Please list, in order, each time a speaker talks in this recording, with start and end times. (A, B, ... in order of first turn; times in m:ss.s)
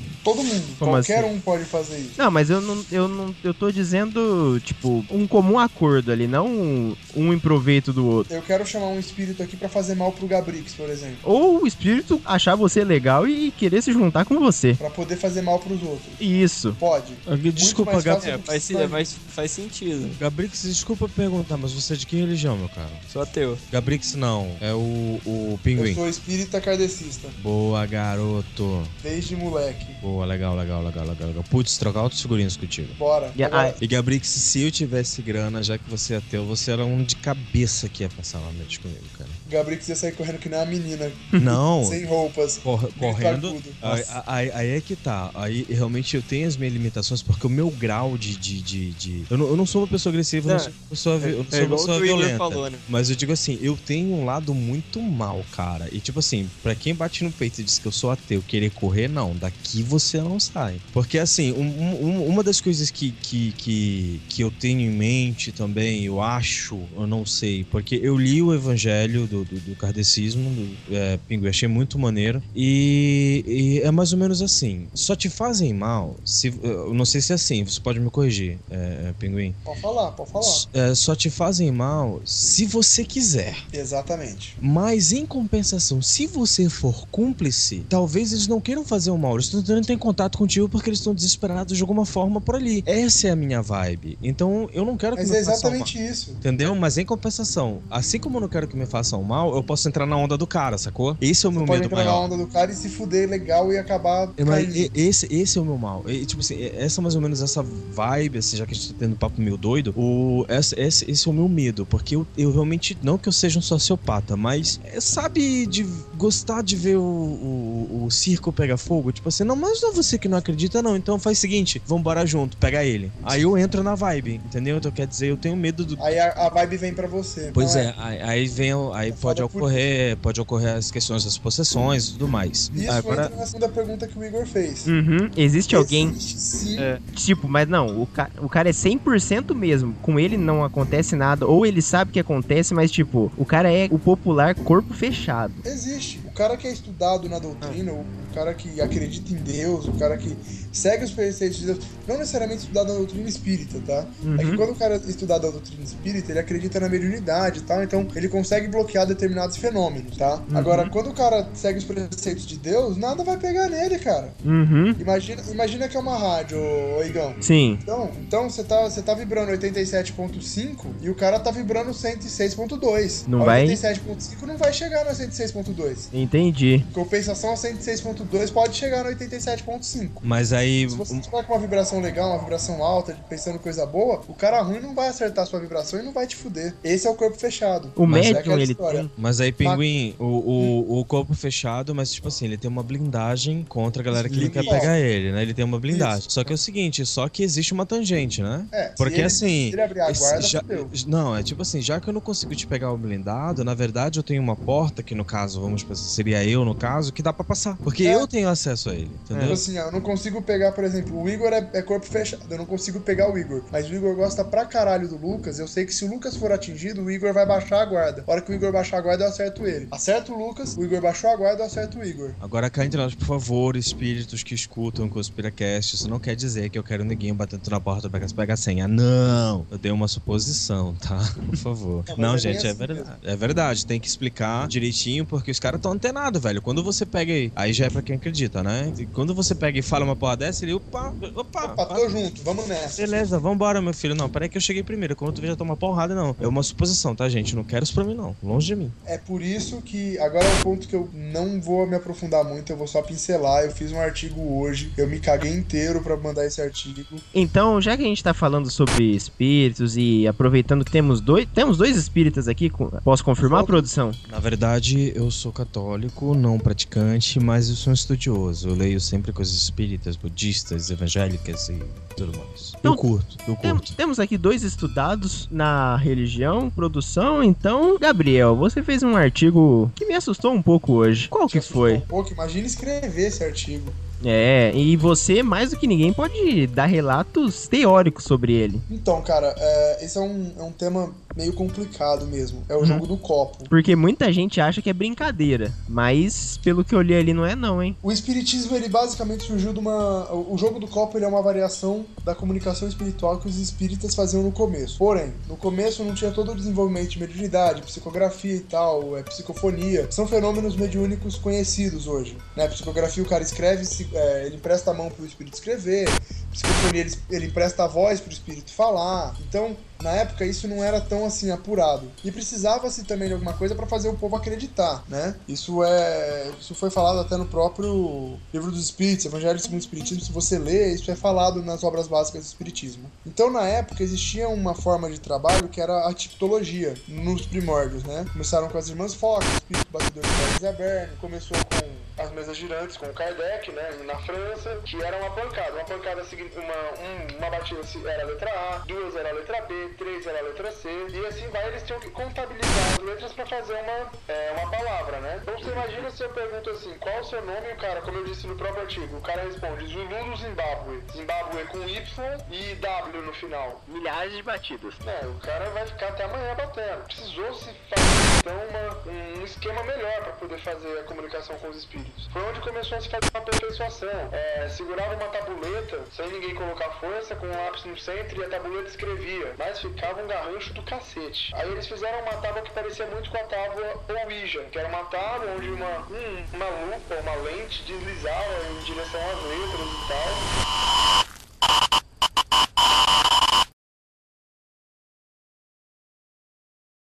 0:00.2-0:02.2 A
0:00.8-0:01.3 B
0:02.2-0:08.3 B
0:08.3-0:11.2 A
0:11.2-0:14.8 B
0:14.8-0:16.2 A
0:16.2-0:16.8 B
0:16.8-0:19.1 A
0:17.3-0:18.4 C
0:18.2-0:20.2 D
0:20.2-0:23.0 C
0:23.1-0:23.6 D
0:23.7-0:26.0 C
0:25.8-0:27.4 A
0:27.4-0:28.9 C
0:29.0-0:30.0 A
0:30.0-0:33.0 C
0:33.0-0:33.8 A
0:33.4-0:33.8 B
0:33.8-0:39.4 C
0:39.5-0:41.2 A
0:41.4-0:42.0 C
0:41.8-0:43.8 A
0:42.6-1:19.6 C
0:50.4-0:52.8 D
1:19.7-1:20.7 A
1:20.4-1:23.6 C
1:23.7-1:24.6 A
1:24.6-1:42.3 C
1:35.2-1:36.4 A
1:41.6-1:44.9 A
1:44.4-2:06.2 C
2:03.2-2:03.5 A
2:06.0-2:07.9 A
2:07.5-2:13.3 C
2:09.1-2:09.8 A
2:12.7-2:14.9 A
2:14.9-2:16.2 B
2:15.7-2:16.9 A
2:17.1-2:25.6 B
2:25.6-2:44.4 A
2:34.2-2:34.6 B
2:40.5-2:40.9 B
2:44.4-2:45.0 B
2:45.0-2:56.1 A
2:47.4-2:47.8 B
2:53.3-2:53.8 B
2:56.1-2:56.9 B
2:56.9-3:00.3 A
3:00.2-3:01.3 C
3:00.9-3:09.1 A
3:08.0-3:09.1 B
3:08.1-3:08.4 C
3:09.2-3:29.6 C
3:14.1-3:14.9 D
3:14.2-3:14.9 A
3:15.9-3:16.2 A
3:18.7-3:20.9 A
3:28.0-3:28.3 A
3:29.3-3:29.6 D
3:29.5-3:42.4 A
3:42.4-4:02.1 C
3:52.1-3:53.1 A
4:01.6-4:03.0 A
4:03.0-4:09.0 C
4:09.1-4:17.2 A
4:17.3-4:24.2 B
4:23.4-4:23.9 A
4:24.3-4:33.9 C
4:33.6-4:42.0 B
4:41.5-4:44.0 A
4:44.2-4:48.8 B
4:48.9-4:53.7 A
4:52.8-4:53.0 B
4:53.7-4:58.0 B
4:58.0-6:03.8 A
6:03.9-6:05.0 B
6:05.0-6:30.6 A